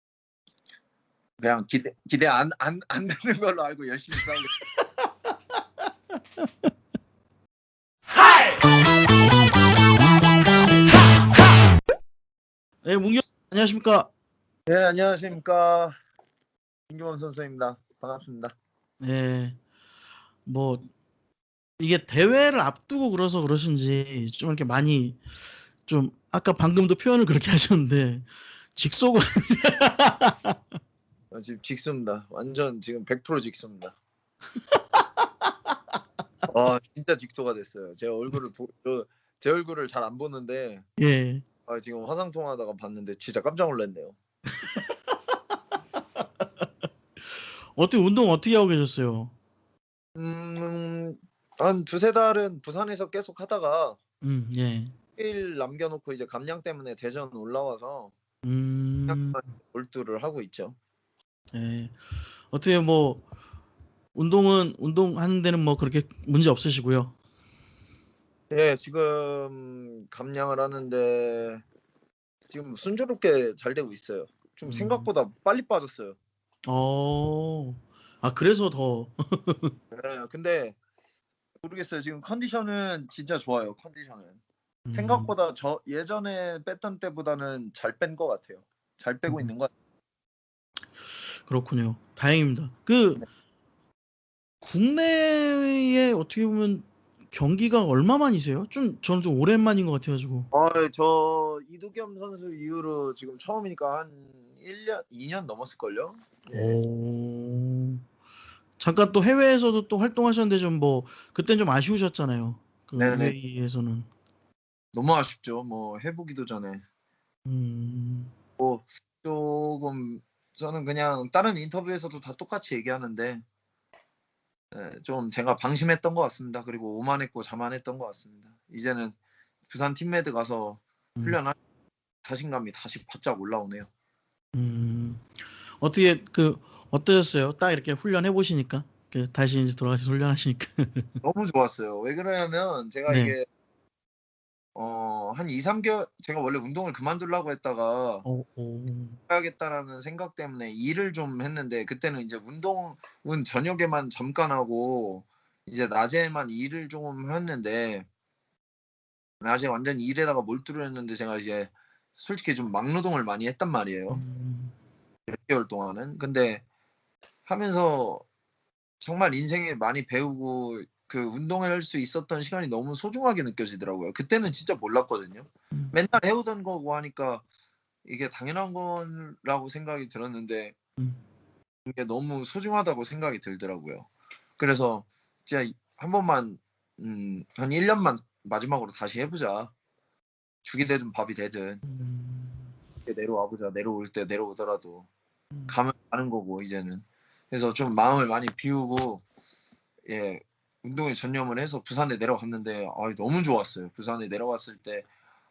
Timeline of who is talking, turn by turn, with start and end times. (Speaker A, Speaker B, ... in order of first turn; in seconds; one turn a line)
Speaker A: 1.4-4.5
Speaker B: 12.8-14.1
Speaker A: 14.7-15.9
Speaker A: 16.9-18.5
Speaker B: 19.0-19.6
Speaker B: 20.4-20.9
Speaker B: 21.8-30.6
Speaker A: 31.3-34.0
Speaker B: 34.7-35.3
Speaker A: 36.5-40.9
Speaker B: 41.0-41.4
Speaker A: 41.7-44.2
Speaker B: 44.6-44.9
Speaker B: 47.3-49.3
Speaker A: 50.2-54.0
Speaker B: 54.2-54.9
Speaker A: 55.2-58.1
Speaker B: 58.4-59.4
Speaker A: 59.1-60.8
Speaker B: 61.5-63.2
Speaker B: 64.2-67.2
Speaker A: 68.5-71.6
Speaker A: 72.5-76.2
Speaker B: 74.7-75.1
Speaker B: 76.7-79.8
Speaker A: 79.9-80.8
Speaker A: 81.6-84.4
Speaker B: 84.9-85.3
Speaker A: 84.9-89.7
Speaker B: 91.1-93.2
Speaker B: 94.6-100.5
Speaker A: 100.5-106.8
Speaker B: 106.5-108.0
Speaker B: 108.8-114.1
Speaker A: 113.0-113.4
Speaker A: 114.9-116.8
Speaker B: 117.5-118.3
Speaker A: 118.6-123.4
Speaker A: 124.7-129.2
Speaker A: 129.7-131.6
Speaker A: 132.2-133.9
Speaker B: 134.5-135.3
Speaker B: 135.8-141.2
Speaker A: 141.2-143.5
Speaker B: 143.1-143.3
Speaker A: 144.8-148.3
Speaker B: 148.2-149.2
Speaker A: 149.3-158.1
Speaker A: 159.4-164.2
Speaker B: 164.1-164.8
Speaker A: 165.3-166.6
Speaker A: 167.4-168.2
Speaker A: 169.0-177.4
Speaker A: 178.1-180.8
Speaker A: 181.9-189.7
Speaker A: 190.6-191.8
Speaker B: 191.8-192.8
Speaker A: 193.1-195.1
Speaker A: 195.7-199.2
Speaker A: 200.1-205.1